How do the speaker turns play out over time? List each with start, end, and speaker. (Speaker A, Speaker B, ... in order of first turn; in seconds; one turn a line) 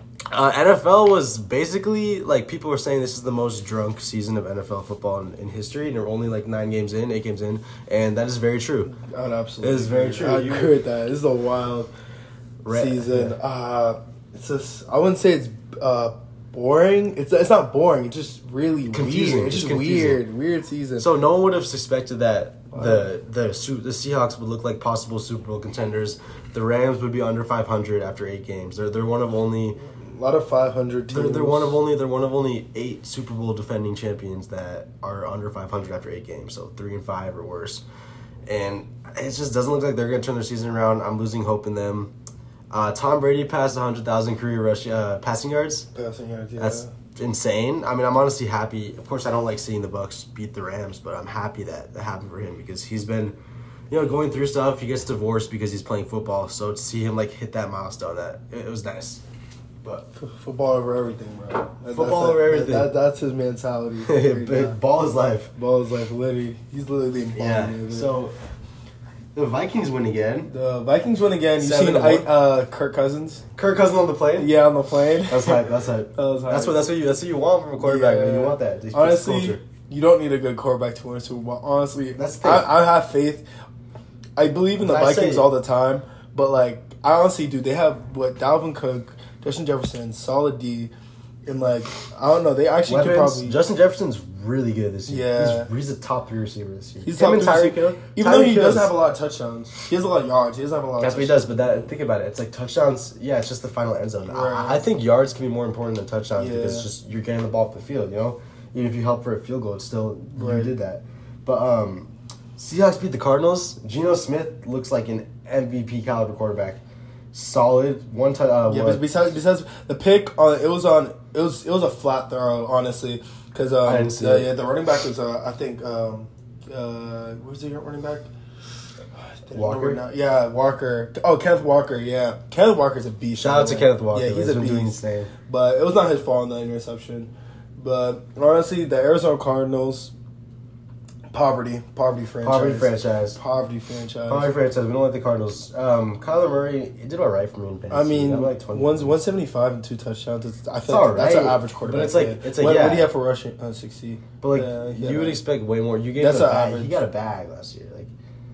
Speaker A: 0.3-8.9
Speaker B: 8.9-11.9
Speaker A: 9.6-10.8
Speaker A: 12.6-13.3
Speaker B: 12.7-21.1
Speaker A: 18.9-20.2
Speaker A: 21.0-29.8
Speaker B: 22.7-23.1
Speaker B: 29.8-31.8
Speaker A: 31.1-37.8
Speaker A: 38.5-42.1
Speaker A: 42.7-45.9
Speaker B: 45.9-46.9
Speaker A: 46.6-53.4
Speaker A: 53.9-59.2
Speaker B: 60.1-64.8
Speaker A: 61.9-62.9
Speaker A: 64.1-65.5
Speaker B: 65.5-68.1
Speaker A: 67.4-68.3
Speaker A: 69.3-70.5
Speaker B: 70.5-73.4
Speaker A: 71.6-72.3
Speaker A: 73.5-74.5
Speaker B: 74.4-75.6
Speaker A: 75.3-79.6
Speaker B: 76.2-76.8
Speaker B: 77.8-83.4
Speaker A: 82.2-82.7
Speaker B: 84.4-90.9
Speaker A: 84.8-85.5
Speaker B: 91.5-93.5
Speaker A: 92.9-98.9
Speaker B: 95.1-95.7
Speaker B: 97.0-101.7
Speaker A: 101.0-116.8
Speaker B: 104.3-104.8
Speaker B: 106.3-106.9
Speaker B: 110.3-110.7
Speaker A: 117.3-119.1
Speaker B: 118.7-128.3
Speaker A: 123.8-124.5
Speaker B: 129.1-140.1
Speaker A: 129.5-130.0
Speaker A: 133.4-135.3
Speaker B: 141.3-144.5
Speaker A: 142.4-143.4
Speaker A: 144.3-149.2
Speaker B: 147.9-155.4
Speaker A: 150.9-153.1
Speaker A: 154.4-158.1
Speaker B: 156.2-157.0